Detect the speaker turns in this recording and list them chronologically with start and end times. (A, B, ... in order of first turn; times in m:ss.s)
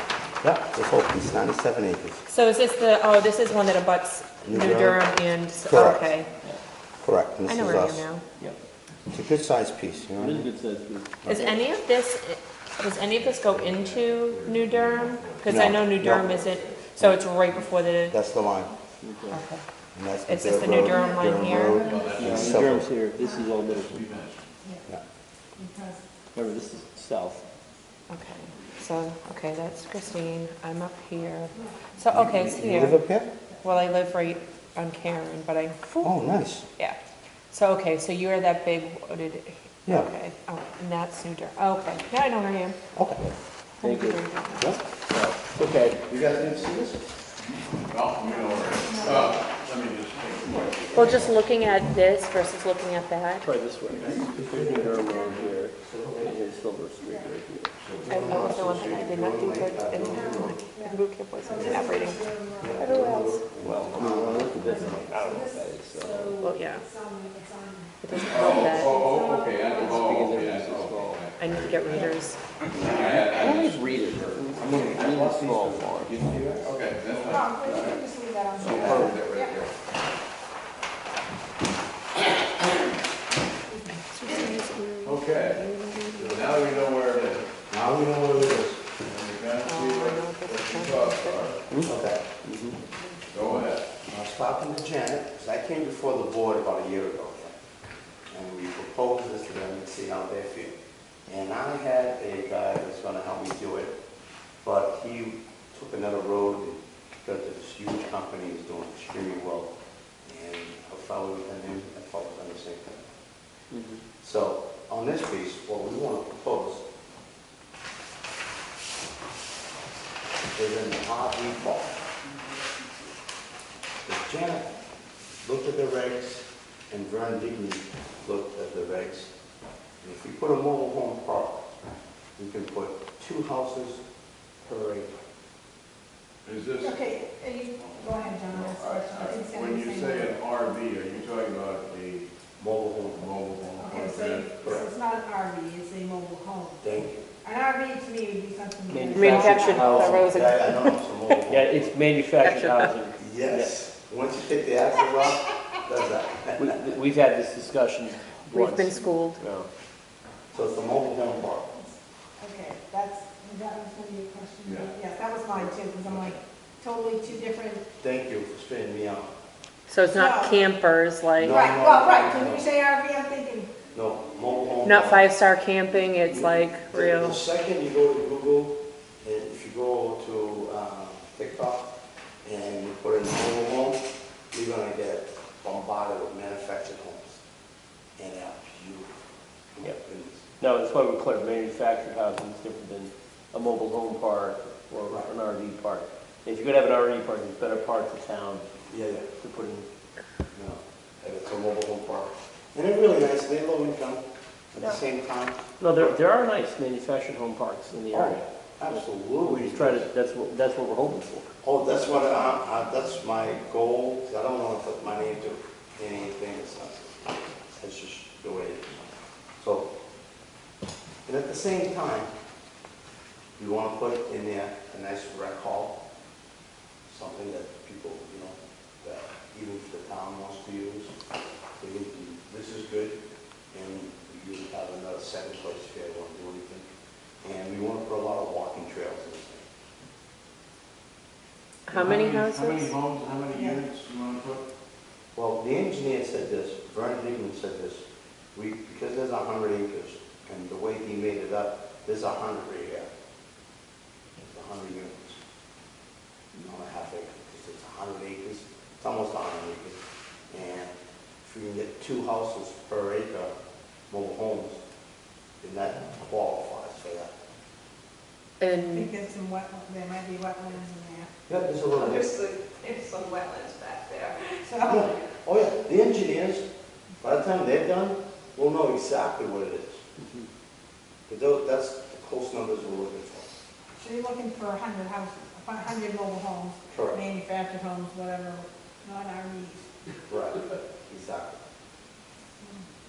0:00.4-0:02.2 A
0:02.3-0:06.3 B
0:04.4-0:05.1 A
0:05.6-0:06.1 A
0:07.0-0:08.0 A
0:07.5-0:08.2 B
0:09.1-0:10.5 A
0:10.2-0:11.6 C
0:11.2-0:18.2 B
0:13.0-0:15.6 D
0:15.4-0:17.2 A
0:18.1-0:18.7 A
0:19.0-0:19.4 C
0:19.3-0:19.6 B
0:19.9-0:22.9 A
0:20.2-0:21.8 B
0:20.8-0:22.4 E
0:21.8-0:22.8 D
0:22.2-0:24.0 C
0:23.1-0:23.5 E
0:23.6-0:24.4 D
0:25.6-0:26.0 E
0:26.3-0:27.4 C
0:28.1-0:33.0 B
0:31.6-0:32.0 E
0:32.1-0:33.3 A
0:33.5-0:34.1 E
0:33.6-0:36.1 B
0:36.0-0:36.6 A
0:37.5-0:42.8 B
0:39.8-0:40.1 A
0:42.9-0:43.2 A
0:43.8-0:44.8 B
0:43.8-0:44.2 C
0:45.1-0:46.0 C
0:46.0-0:47.0 A
0:47.6-0:51.5 D
0:48.2-0:49.6 E
0:50.4-0:51.2 E
0:50.9-0:53.4 B
0:53.4-0:57.7 C
0:54.0-0:54.9 A
0:54.9-0:55.4 E
0:55.8-0:56.3 A
0:57.8-0:58.8 D
0:58.0-1:00.6 A
0:58.1-1:02.2 B
0:58.8-0:59.1 E
0:59.7-1:03.0 E
1:01.5-1:01.9 A
1:02.6-1:05.2 A
1:02.9-1:03.2 B
1:03.1-1:03.4 F
1:03.6-1:06.4 C
1:04.6-1:10.5 E
1:06.4-1:06.8 B
1:08.0-1:08.9 B
1:08.3-1:15.2 D
1:09.8-1:11.2 C
1:11.4-1:12.4 B
1:12.9-1:16.2 C
1:14.6-1:16.8 A
1:16.0-1:18.0 D
1:17.3-1:19.6 E
1:18.6-1:19.2 C
1:18.6-1:19.7 D
1:23.7-1:24.5 E
1:24.1-1:26.8 B
1:25.0-1:27.5 D
1:27.7-1:28.9 A
1:29.0-1:31.6 D
1:29.6-1:31.6 B
1:31.8-1:32.4 A
1:32.4-1:32.7 C
1:33.3-1:33.8 D
1:34.0-1:37.5 A
1:38.3-1:40.7 A
1:41.3-1:43.9 A
1:44.6-1:49.7 A
1:50.2-1:53.0 A
1:53.7-1:54.0 C
1:54.2-1:56.8 A
2:00.5-2:02.0 A
2:04.0-2:04.7 A
2:05.4-2:09.3 A
2:10.0-2:11.7 A
2:12.4-2:14.0 A
2:14.6-2:15.2 A
2:16.4-2:17.0 D
2:16.8-2:20.4 E
2:17.8-2:22.2 D
2:22.6-2:23.3 A
2:23.1-2:24.8 D
2:23.8-2:26.8 E
2:26.8-2:27.3 A
2:27.4-2:29.9 E
2:28.9-2:30.4 C
2:29.1-2:31.4 B
2:29.7-2:32.0 A
2:31.5-2:33.8 C
2:32.4-2:32.9 B
2:33.2-2:36.8 A
2:36.6-2:39.7 C
2:38.5-2:39.4 B
2:40.5-2:41.8 A
2:41.8-2:47.8 E
2:44.6-2:44.9 D
2:48.0-2:49.3 A
2:49.9-2:51.6 B
2:50.1-2:50.6 E
2:51.4-2:52.6 A
2:51.5-2:53.8 E
2:53.9-2:55.3 A
2:54.8-2:57.4 B
2:56.3-3:01.9 A
3:02.4-3:07.4 A
3:08.2-3:09.1 A
3:09.7-3:10.4 A
3:10.6-3:18.7 C
3:18.9-3:19.3 A
3:19.4-3:19.9 C
3:20.5-3:26.1 A
3:25.8-3:31.5 C
3:28.1-3:30.1 A
3:31.6-3:39.0 A
3:39.6-3:39.9 A
3:41.2-3:42.3 A
3:43.6-3:46.0 A
3:47.1-3:51.1 A
3:51.8-3:53.2 A
3:53.7-3:56.9 A
3:57.4-3:59.6 A
4:01.9-4:02.9 B
4:01.9-4:04.6 D
4:03.5-4:03.8 E
4:05.4-4:13.1 A
4:14.4-4:15.4 A
4:16.6-4:20.0 A
4:20.5-4:20.9 A
4:21.4-4:23.5 A
4:24.1-4:24.8 A
4:25.6-4:27.3 A
4:28.6-4:29.1 B
4:28.8-4:31.3 E
4:31.5-4:32.4 A
4:32.0-4:34.0 F
4:33.4-4:34.3 B
4:34.6-4:35.1 E
4:34.8-4:36.6 A
4:37.2-4:40.0 A
4:41.3-4:43.5 A
4:44.0-4:49.8 E
4:46.9-4:47.2 A
4:50.3-4:51.6 A